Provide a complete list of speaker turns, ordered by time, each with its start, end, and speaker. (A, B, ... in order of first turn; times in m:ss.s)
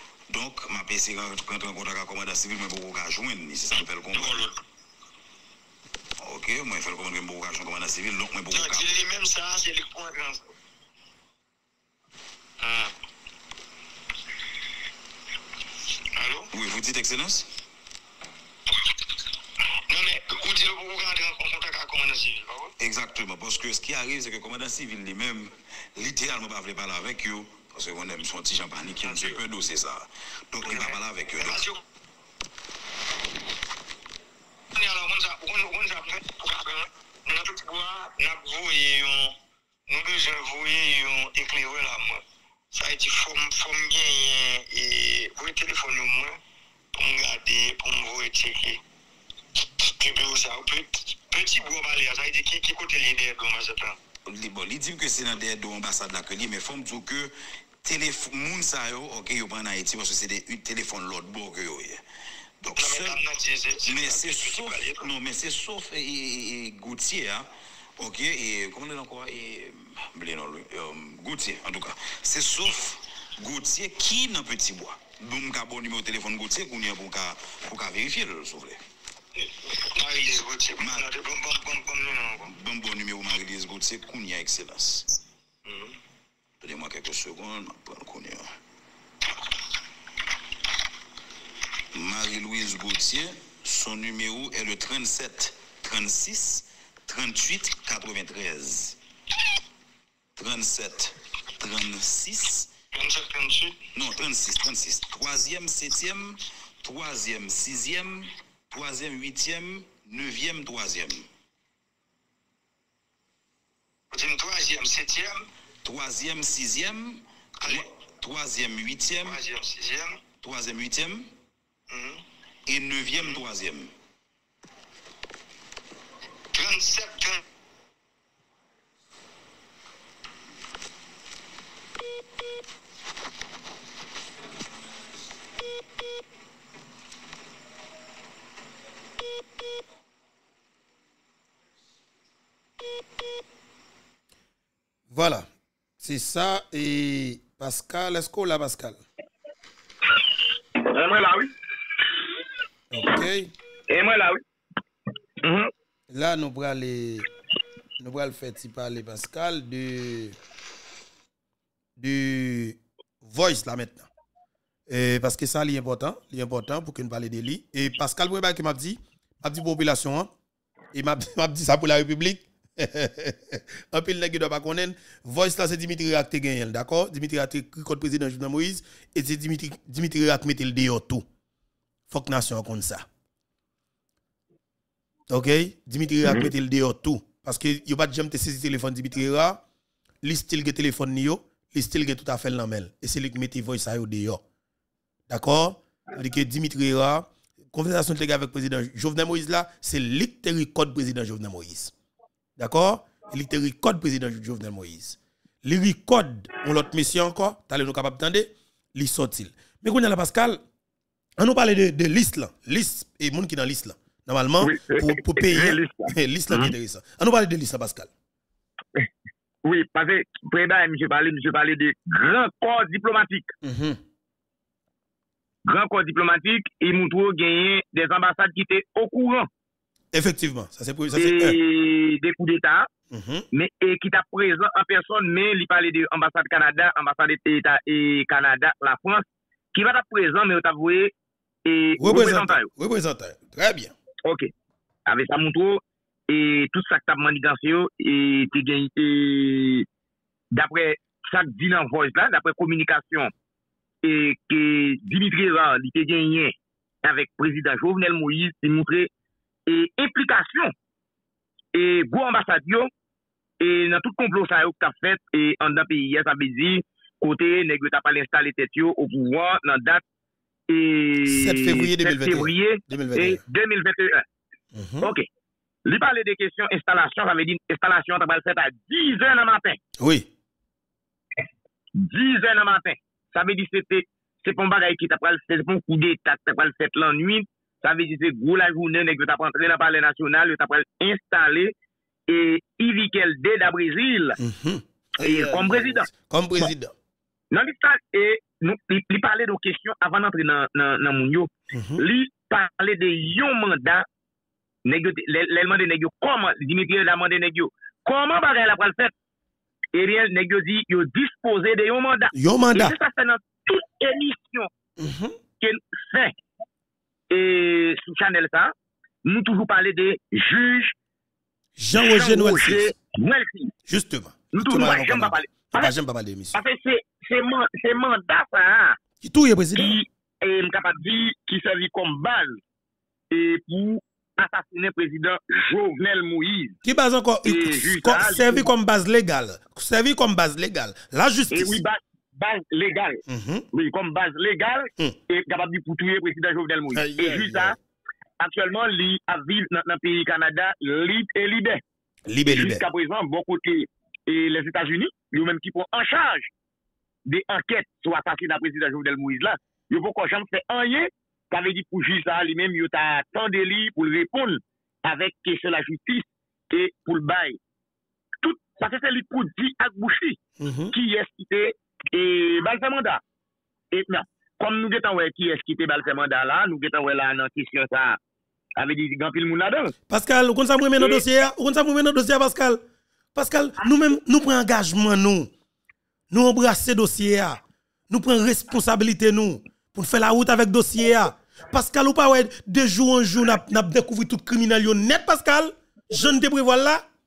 0:00.3-0:04.5 A
0:04.2-0:04.5 B
0:06.2-0:09.0 A
0:08.5-0:10.5 B
0:12.6-0:12.9 B
0:16.2-0:16.5 B
0:16.5-0:17.5 A
0:19.9-0:22.7 B
0:22.8-0:31.6 A
0:29.0-0:29.4 B
0:30.6-0:31.8 B
0:34.7-0:39.4 B
0:39.9-0:46.4 B
0:46.9-0:48.8 B
0:49.9-0:54.0 B
0:54.2-1:02.0 A
1:02.6-1:03.2 A
1:02.8-1:05.0 B
1:03.8-1:18.8 A
1:19.4-1:22.5 B
1:20.8-1:21.1 A
1:22.4-1:25.1 A
1:25.7-1:25.9 B
1:26.6-1:28.5 A
1:31.9-1:39.0 A
1:40.4-1:42.7 A
1:42.9-1:43.8 B
1:43.9-1:51.3 A
1:54.1-1:55.5 B
1:55.8-1:59.4 A
1:57.6-1:57.9 B
1:59.2-2:00.2 B
2:00.4-2:01.3 A
2:01.9-2:02.2 B
2:02.7-2:03.9 A
2:06.5-2:07.4 B
2:25.1-2:25.5 C
2:26.0-2:29.0 C
2:30.8-2:31.5 D
2:32.9-2:33.5 C
2:33.9-2:34.4 D
2:35.4-2:35.7 D
2:36.1-2:37.3 C
2:38.0-2:40.4 C
2:42.0-2:44.1 C
2:44.9-2:50.3 C
2:50.9-3:01.2 C
3:02.1-3:03.1 C
3:05.3-3:09.6 C
3:06.2-3:06.5 D
3:10.2-3:14.4 C
3:15.3-3:21.9 C
3:22.6-3:30.6 C
3:31.4-3:38.1 C
3:34.6-3:36.7 D
3:39.6-3:43.5 D
3:43.6-3:44.0 C
3:45.6-3:49.5 D
3:50.1-3:51.6 C
3:51.2-3:52.9 D
3:53.1-3:53.5 C
3:53.5-4:01.1 D
4:01.7-4:02.7 D
4:02.0-4:03.9 C
4:04.2-4:04.5 D
4:05.1-4:09.9 D
4:10.5-4:13.3 D
4:14.0-4:19.1 D
4:19.7-4:20.7 D
4:21.7-4:22.9 D
4:23.6-4:30.0 D
4:30.7-4:34.2 D
4:31.2-4:33.4 C
4:34.8-4:35.1 C
4:35.0-4:35.3 D
4:35.9-4:39.8 D
4:40.0-4:40.3 C
4:42.0-4:51.7 D
4:52.3-4:54.4 D
4:54.4-4:56.9 C
4:55.2-4:56.7 D
4:57.5-5:04.0 D
5:01.7-5:02.0 C
5:04.8-5:09.1 D
5:09.9-5:14.7 D
5:12.3-5:13.0 C
5:15.0-5:15.4 C
5:15.6-5:16.3 D
5:17.3-5:18.7 D
5:19.2-5:20.9 D
5:21.8-5:22.9 C
5:21.9-5:23.7 D
5:23.9-5:26.6 C
5:24.5-5:25.9 D
5:26.5-5:29.0 D
5:29.2-5:30.0 C
5:29.8-5:32.6 D
5:33.3-5:36.8 D
5:36.8-5:41.8 C
5:37.4-5:38.7 D
5:41.5-5:47.8 D
5:43.3-5:43.6 C
5:46.9-5:47.8 C
5:48.4-5:51.8 D
5:52.3-5:52.9 C
5:52.5-5:56.5 D
5:57.3-6:07.6 D
6:08.4-6:10.4 D
6:10.6-6:10.9 C
6:10.9-6:13.2 D
6:13.9-6:18.2 D
6:18.8-6:19.9 D
6:20.1-6:22.8 C
6:21.0-6:21.2 D
6:23.4-6:25.5 C
6:26.3-6:37.0 C